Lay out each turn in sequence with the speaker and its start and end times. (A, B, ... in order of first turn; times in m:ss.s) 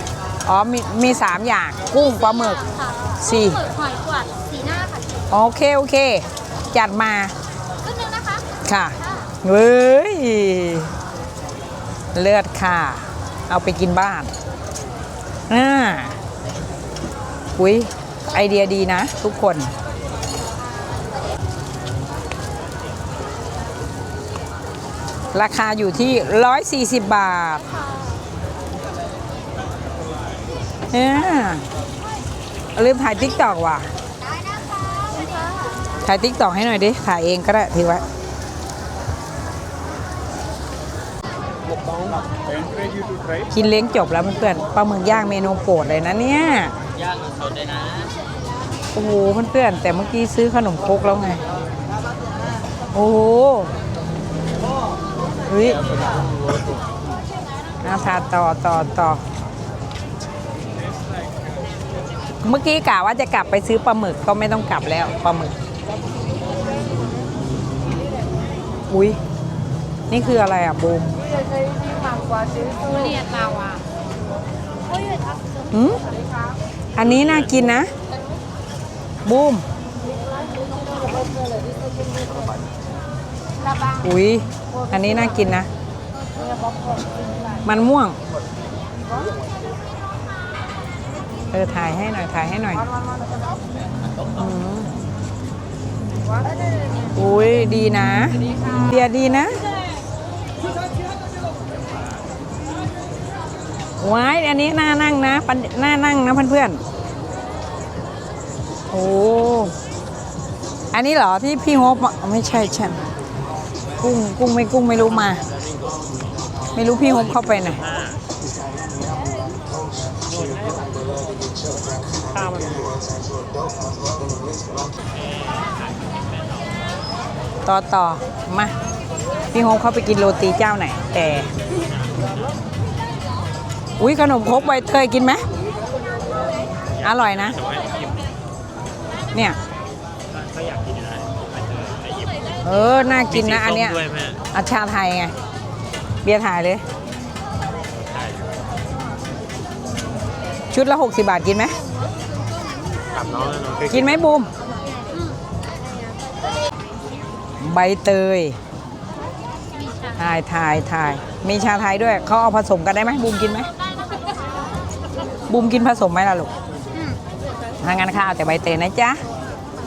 0:00.5-0:02.6 A
0:01.9-0:05.1 B
0:03.2-0:03.6 A
0:05.3-0:07.3 A
0:07.8-0:08.5 B
0:08.6-0:10.9 A
0:09.0-0:09.3 B
0:12.2-0:14.3 A
0:15.5-0:16.2 A
0:17.6-0:19.7 A
0:25.3-0:27.6 A
0:27.8-0:28.2 B
0:30.9-0:31.6 A
0:32.8-0:33.9 A
0:34.3-0:35.7 B
0:36.0-0:38.0 A
0:41.7-0:42.2 C
0:43.5-0:46.7 A
0:47.0-0:48.1 C
0:48.9-0:51.4 A
0:52.9-0:53.7 A
0:55.5-0:55.8 A
0:55.9-0:56.8 C
0:57.8-0:59.2 A
1:02.4-1:05.5 A
1:08.9-1:09.2 A
1:10.1-1:11.2 A
1:12.6-1:13.8 B
1:15.7-1:16.0 A
1:17.0-1:17.9 A
1:17.0-1:17.7 C
1:19.2-1:19.6 A
1:24.0-1:25.7 A
1:27.6-1:28.2 A
1:31.5-1:32.9 A
1:34.4-1:34.9 A
1:37.2-1:39.6 A
1:44.0-1:46.8 A
1:48.9-1:49.7 A
1:50.9-1:53.0 A
1:54.0-1:55.4 A
1:55.1-1:55.9 C
1:56.8-1:57.8 A
1:57.0-1:58.2 C
2:00.2-2:01.3 C
2:02.3-2:03.0 C
2:05.0-2:07.0 C
2:07.7-2:08.7 A
2:09.5-2:11.5 A
2:11.7-2:12.6 C
2:14.0-2:15.4 A
2:16.8-2:18.4 C
2:17.0-2:17.6 A
2:20.3-2:22.5 C
2:22.6-2:24.0 A
2:23.3-2:24.4 C
2:24.5-2:25.3 A
2:26.2-2:26.8 A
2:27.9-2:28.6 C
2:30.7-2:31.8 A
2:33.1-2:34.2 C
2:33.9-2:34.5 A
2:34.8-2:35.4 B
2:37.6-2:38.6 A
2:39.7-2:40.2 B
2:40.2-2:43.7 A
2:44.0-2:44.6 B
2:45.5-2:46.5 A
2:46.9-2:47.2 B
2:47.8-2:49.2 A